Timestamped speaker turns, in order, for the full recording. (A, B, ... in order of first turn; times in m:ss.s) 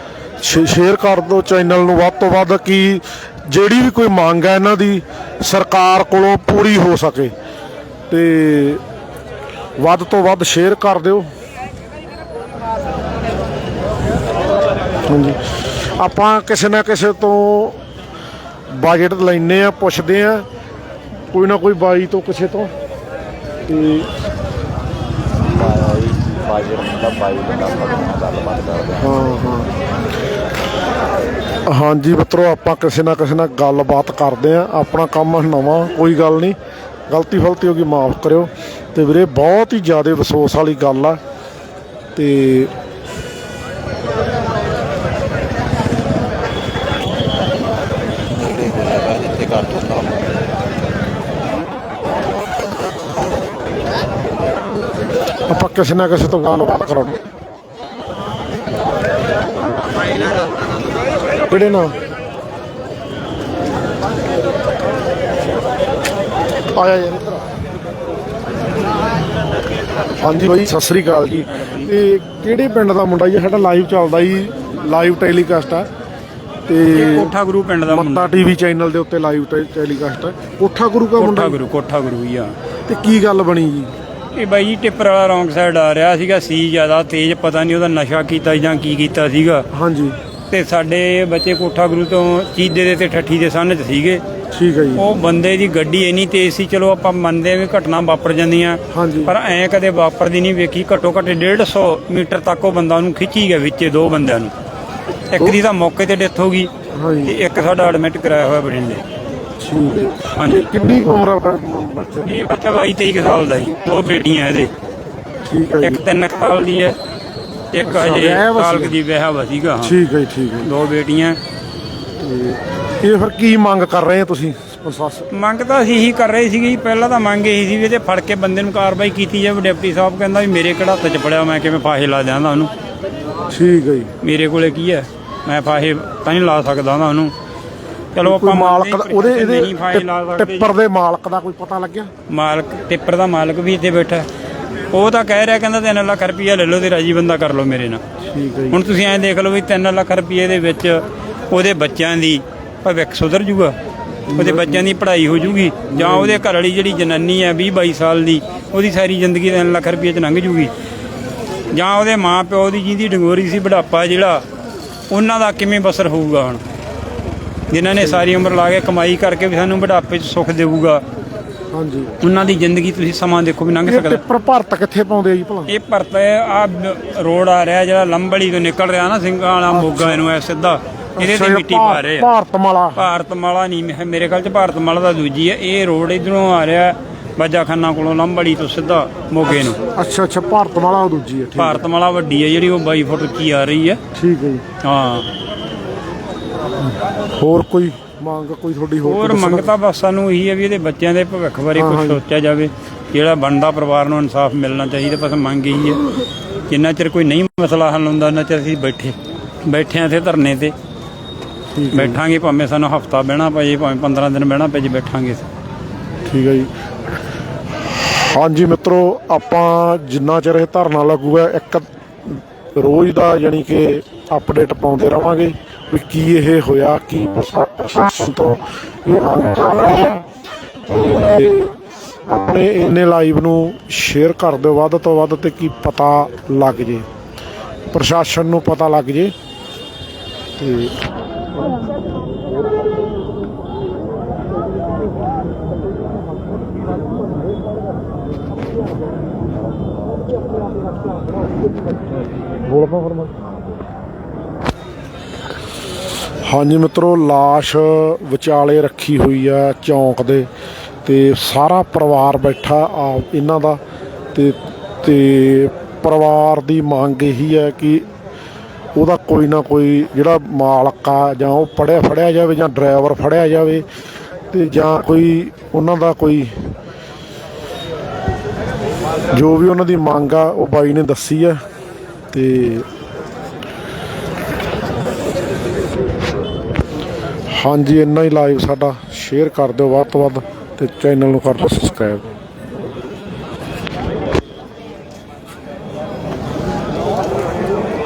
0:00.4-0:07.3 A
0:08.1-0:08.8 A
0:09.8-0:11.3 A
0:15.1-0:17.8 A
0:18.7-0:20.4 A
0:21.3-0:22.7 A
0:23.7-0:24.1 A
0:25.5-0:29.0 B
0:29.0-0:29.7 A
0:31.6-0:36.6 A
0:37.1-0:41.2 A
0:42.2-0:42.7 A
0:48.7-0:50.0 B
0:55.5-0:57.2 A
1:01.4-1:01.9 A
1:06.7-1:07.4 A
1:10.2-1:15.9 A
1:16.7-1:17.3 A
1:16.9-1:18.4 C
1:17.9-1:21.6 A
1:21.2-1:22.5 C
1:22.9-1:23.9 A
1:24.3-1:29.6 C
1:29.7-1:30.2 A
1:30.5-1:34.2 C
1:34.5-1:35.1 A
1:34.9-1:44.5 C
1:38.9-1:39.3 A
1:45.3-1:46.7 C
1:47.0-1:47.4 A
1:47.2-1:49.0 C
1:49.6-1:52.3 A
1:50.3-1:50.7 C
1:52.2-1:54.7 C
1:55.4-1:56.0 A
1:55.8-1:57.0 C
1:57.7-2:00.0 C
1:57.8-1:59.0 A
1:59.8-2:00.7 A
2:00.6-2:01.4 C
2:02.2-2:05.3 A
2:05.3-2:12.7 C
2:13.5-2:14.1 A
2:14.2-2:17.3 C
2:18.1-2:20.7 C
2:18.2-2:22.1 A
2:22.3-2:24.3 C
2:24.9-2:28.0 C
2:28.2-2:28.8 A
2:28.7-2:33.7 C
2:34.3-2:34.9 A
2:34.3-2:40.7 C
2:35.9-2:36.4 A
2:41.7-2:44.4 C
2:45.1-2:46.6 C
2:47.7-2:51.0 C
2:48.0-2:48.3 A
2:51.7-2:52.2 A
2:52.2-2:54.2 C
2:53.8-2:55.7 A
2:55.7-3:02.3 C
2:59.7-3:00.2 A
3:01.2-3:03.0 A
3:03.0-3:09.8 C
3:09.8-3:11.8 A
3:11.6-3:14.0 C
3:14.1-3:14.6 A
3:14.8-3:15.3 C
3:17.3-3:19.7 A
3:19.0-3:26.0 C
3:21.7-3:22.2 A
3:26.7-3:30.7 C
3:31.7-3:32.2 A
3:31.9-3:35.5 C
3:36.3-3:36.7 A
3:38.2-3:50.2 A
3:50.9-3:51.7 A
3:52.3-3:57.1 A
3:57.9-3:59.3 A
4:00.6-4:00.9 A
4:12.6-4:13.4 A
4:16.4-4:20.5 A
4:21.0-4:23.8 A
4:24.3-4:28.0 A
4:29.0-4:33.8 A
4:34.5-4:36.8 A
4:39.3-4:41.6 A
4:42.3-4:42.9 A
4:47.5-4:52.3 A